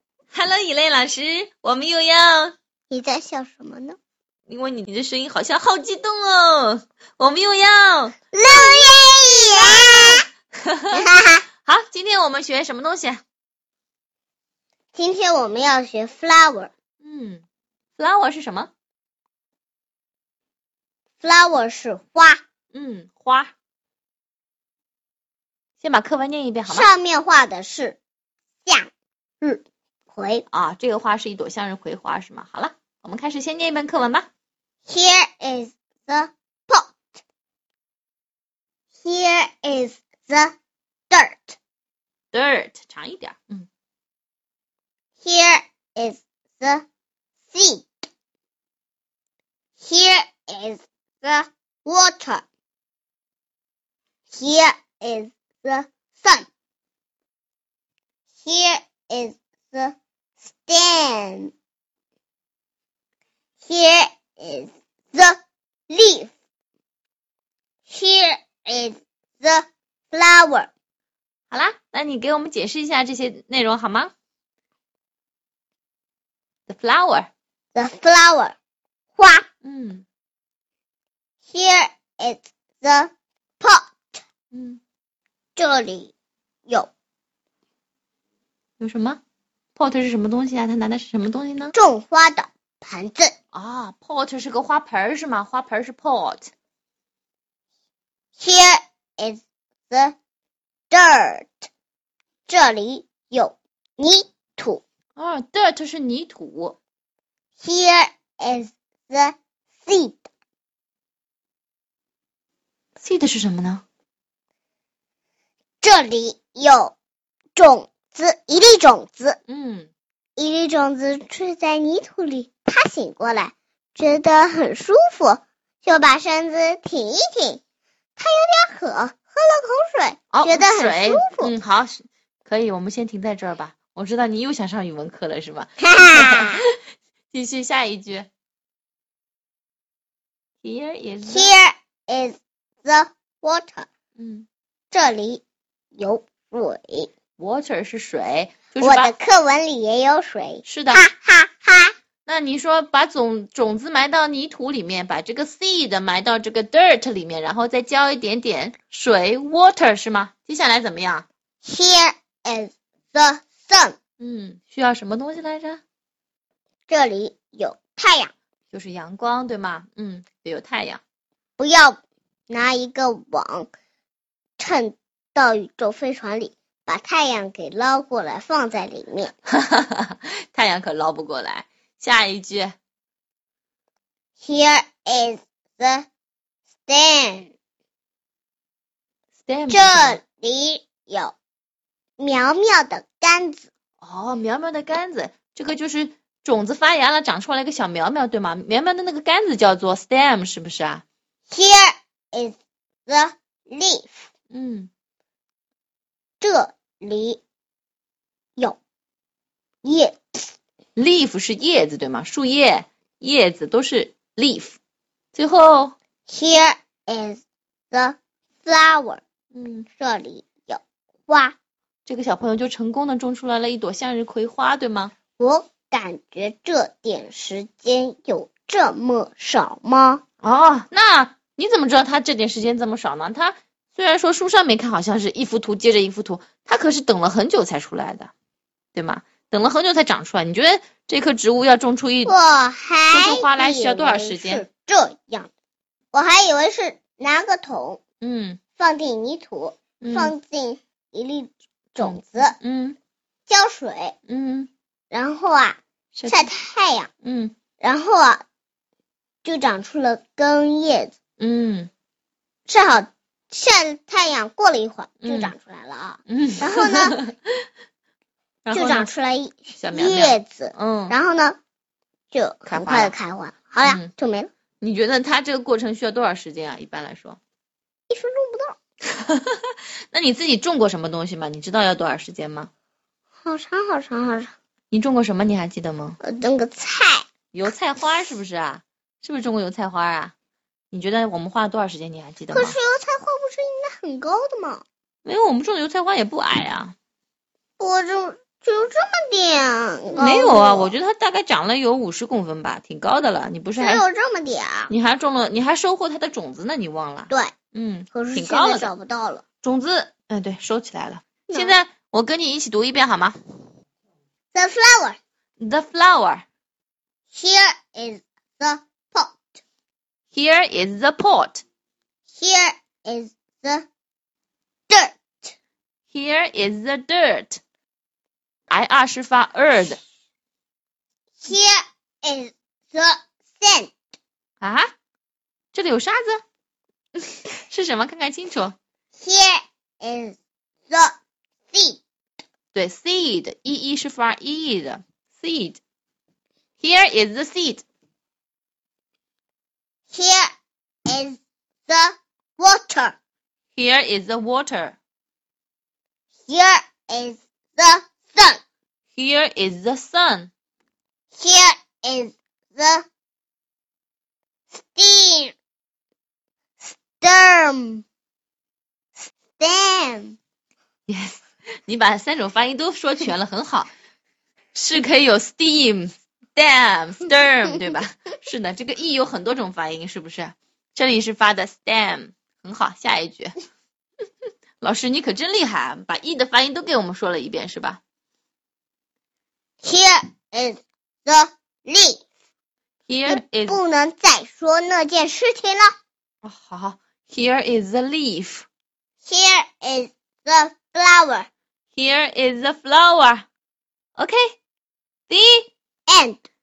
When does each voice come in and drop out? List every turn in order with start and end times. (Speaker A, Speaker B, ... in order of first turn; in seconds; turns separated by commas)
Speaker A: 0.3-2.5, Speaker B: 2.9-4.0, Speaker A: 4.5-11.0, Speaker B: 8.3-10.2, Speaker B: 10.9-11.4, Speaker A: 11.6-13.2, Speaker B: 14.9-16.7, Speaker A: 17.0-17.4, Speaker A: 18.0-18.7, Speaker B: 21.2-22.4, Speaker A: 22.7-23.5, Speaker A: 25.8-26.9, Speaker B: 26.7-28.0, Speaker B: 29.4-30.4, Speaker A: 30.5-34.3, Speaker B: 34.9-36.9, Speaker B: 39.0-40.5, Speaker B: 41.1-41.6, Speaker A: 42.3-43.7, Speaker B: 45.2-46.8, Speaker B: 47.5-47.9, Speaker B: 49.8-52.4, Speaker B: 54.3-56.5, Speaker B: 58.4-59.9, Speaker B: 60.5-61.5, Speaker B: 63.6-65.4, Speaker B: 65.9-66.3, Speaker B: 67.9-70.7, Speaker A: 71.5-74.1, Speaker A: 76.7-77.3, Speaker B: 77.7-78.5, Speaker B: 79.1-79.5, Speaker A: 79.6-80.0, Speaker B: 81.5-83.9, Speaker A: 84.5-84.8, Speaker B: 85.5-86.1, Speaker A: 88.8-89.2, Speaker A: 89.8-91.7, Speaker B: 91.7-93.3, Speaker A: 93.5-96.5, Speaker B: 98.4-100.1, Speaker B: 100.9-101.7, Speaker B: 102.5-104.8, Speaker A: 105.2-106.8, Speaker B: 107.6-110.3, Speaker A: 113.0-113.8, Speaker B: 115.8-116.9, Speaker B: 117.5-119.4, Speaker A: 119.5-119.9, Speaker B: 120.3-127.6, Speaker B: 128.2-131.5, Speaker A: 130.3-136.8, Speaker B: 135.8-136.6, Speaker A: 137.3-138.3, Speaker A: 140.6-141.5, Speaker B: 141.3-143.9, Speaker A: 144.2-144.5, Speaker B: 144.9-145.4, Speaker B: 145.9-147.1, Speaker A: 147.4-149.1, Speaker B: 148.8-151.9, Speaker A: 150.6-151.0, Speaker A: 152.2-161.2, Speaker B: 161.6-164.0, Speaker A: 164.2-165.8, Speaker B: 166.9-168.3, Speaker A: 168.7-171.0, Speaker B: 171.6-172.0, Speaker B: 172.5-173.7, Speaker B: 174.6-179.3, Speaker A: 179.5-182.8, Speaker B: 184.4-186.1, Speaker B: 186.9-187.5, Speaker A: 189.4-190.2, Speaker B: 189.7-191.3, Speaker B: 192.2-193.7, Speaker A: 194.0-201.0, Speaker B: 201.5-202.5, Speaker B: 203.1-204.2, Speaker A: 204.5-204.9, Speaker B: 206.4-207.4, Speaker B: 209.8-210.5, Speaker A: 210.9-214.8, Speaker A: 215.3-215.9, Speaker B: 216.3-217.4, Speaker B: 217.9-219.2, Speaker A: 219.5-219.8, Speaker B: 220.0-221.5, Speaker A: 222.1-225.1, Speaker B: 225.4-230.2, Speaker A: 230.4-238.3, Speaker A: 238.9-242.3, Speaker B: 242.2-245.5, Speaker A: 243.1-244.6, Speaker B: 246.1-248.0, Speaker A: 248.2-248.6, Speaker B: 248.8-252.5, Speaker A: 250.0-250.3, Speaker A: 251.9-253.0, Speaker B: 253.5-254.1, Speaker A: 254.3-254.7, Speaker B: 255.1-257.1, Speaker A: 256.1-256.5, Speaker A: 257.2-257.5, Speaker B: 257.8-258.4, Speaker B: 259.4-261.1, Speaker A: 261.4-261.9, Speaker B: 262.7-267.2, Speaker A: 265.2-265.5, Speaker A: 266.3-267.6, Speaker A: 268.6-269.1, Speaker B: 268.7-271.6, Speaker A: 269.7-271.1, Speaker B: 272.3-274.5, Speaker A: 272.6-273.1, Speaker A: 273.8-274.1, Speaker A: 274.8-277.4, Speaker B: 278.1-278.7, Speaker A: 279.1-282.7, Speaker B: 283.4-284.5, Speaker A: 284.9-286.2, Speaker B: 286.2-287.2, Speaker A: 287.5-290.3, Speaker A: 290.9-292.8, Speaker B: 292.5-294.8, Speaker A: 295.2-296.9, Speaker B: 297.8-300.9, Speaker A: 300.1-304.0, Speaker B: 303.8-304.9, Speaker A: 304.9-308.9, Speaker B: 308.1-309.4, Speaker A: 309.6-313.4, Speaker B: 311.5-311.8, Speaker B: 314.5-315.2, Speaker A: 315.6-316.4, Speaker B: 317.3-319.4, Speaker A: 320.3-321.6, Speaker B: 322.3-323.9, Speaker B: 324.9-325.5, Speaker A: 326.1-327.6, Speaker A: 328.7-330.0, Speaker B: 331.4-333.9, Speaker A: 334.6-334.9, Speaker A: 335.7-336.4, Speaker A: 337.3-338.7, Speaker B: 339.1-340.4, Speaker B: 340.9-341.1, Speaker B: 341.7-342.0, Speaker A: 342.7-345.8, Speaker A: 346.8-347.8, Speaker B: 350.1-350.5, Speaker B: 351.1-353.1, Speaker A: 353.7-355.0, Speaker B: 356.5-358.6, Speaker A: 359.1-360.5, Speaker B: 361.3-363.0, Speaker B: 364.7-365.5, Speaker B: 366.8-368.0, Speaker B: 369.2-370.4, Speaker A: 371.1-373.9, Speaker A: 374.7-383.5, Speaker A: 384.8-388.0, Speaker B: 389.8-392.2, Speaker A: 393.1-393.8, Speaker B: 393.3-395.9, Speaker A: 396.4-398.6, Speaker B: 399.2-401.5, Speaker A: 401.9-403.4, Speaker A: 404.2-404.5, Speaker A: 405.3-405.7, Speaker B: 406.1-406.4